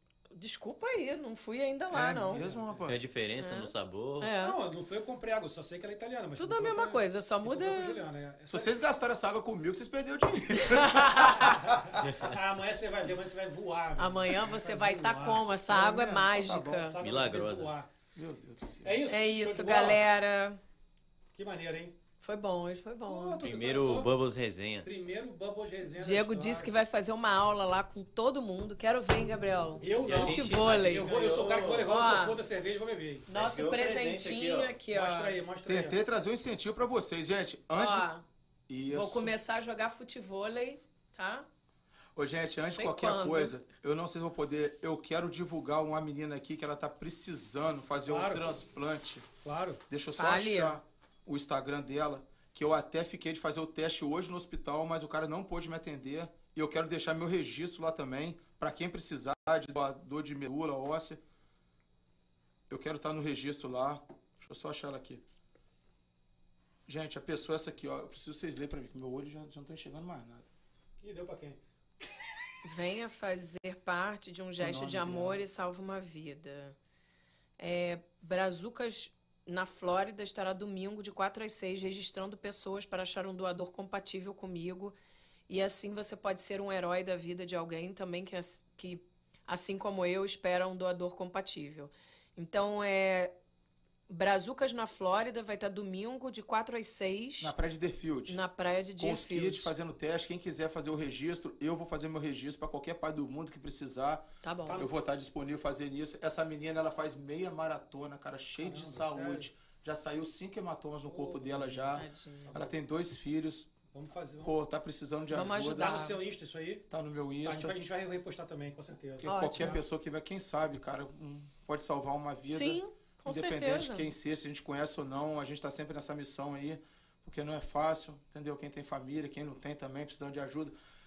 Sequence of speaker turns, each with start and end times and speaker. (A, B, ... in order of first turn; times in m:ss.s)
0:00.3-0:02.4 A
0:01.9-0:03.0 B
0:02.3-0:02.8 C
0:02.8-0:04.3 D
0:03.4-0:04.6 A
0:04.4-0:08.7 C
0:06.4-0:08.0 A
0:08.5-0:12.0 B
0:10.6-0:11.5 A
0:11.5-0:15.4 C
0:12.0-0:12.3 D
0:14.0-0:16.9 A
0:15.7-0:17.0 B
0:16.8-0:17.9 C
0:17.0-0:17.7 D
0:18.1-0:19.0 B
0:18.8-0:20.0 C
0:19.0-0:20.6 A
0:21.3-0:21.9 C
0:22.2-0:23.4 A
0:23.0-0:24.1 C
0:23.4-0:24.9 D
0:24.8-0:26.7 C
0:26.0-0:31.1 A
0:29.8-0:33.3 C
0:30.0-0:32.0 D
0:31.8-0:32.4 A
0:33.3-0:35.4 A
0:33.3-0:34.8 D
0:34.9-0:36.0 C
0:35.6-0:38.0 B
0:37.7-0:38.2 A
0:38.7-0:39.3 B
0:38.9-0:41.4 A
0:42.1-0:49.3 B
0:42.6-0:43.6 A
0:48.0-0:48.5 C
0:49.4-0:49.8 C
0:49.9-1:01.2 B
0:50.1-0:50.8 A
1:02.7-1:05.2 B
1:06.9-1:10.5 B
1:11.0-1:12.3 C
1:12.6-1:16.8 A
1:14.6-1:15.4 B
1:17.6-1:24.9 A
1:25.5-1:33.3 A
1:34.1-1:37.5 A
1:37.4-1:38.4 B
1:38.3-1:39.7 A
1:39.0-1:53.7 B
1:44.4-1:44.9 A
1:44.6-1:44.9 C
1:48.6-1:49.5 C
1:51.1-1:52.7 C
1:51.9-1:52.5 A
1:53.9-1:54.6 C
1:54.4-1:56.0 B
1:55.3-1:56.2 A
1:55.5-1:56.8 C
1:56.9-1:57.7 B
1:57.4-1:59.8 C
1:59.2-2:10.7 B
1:59.2-1:59.8 A
2:02.5-2:04.1 A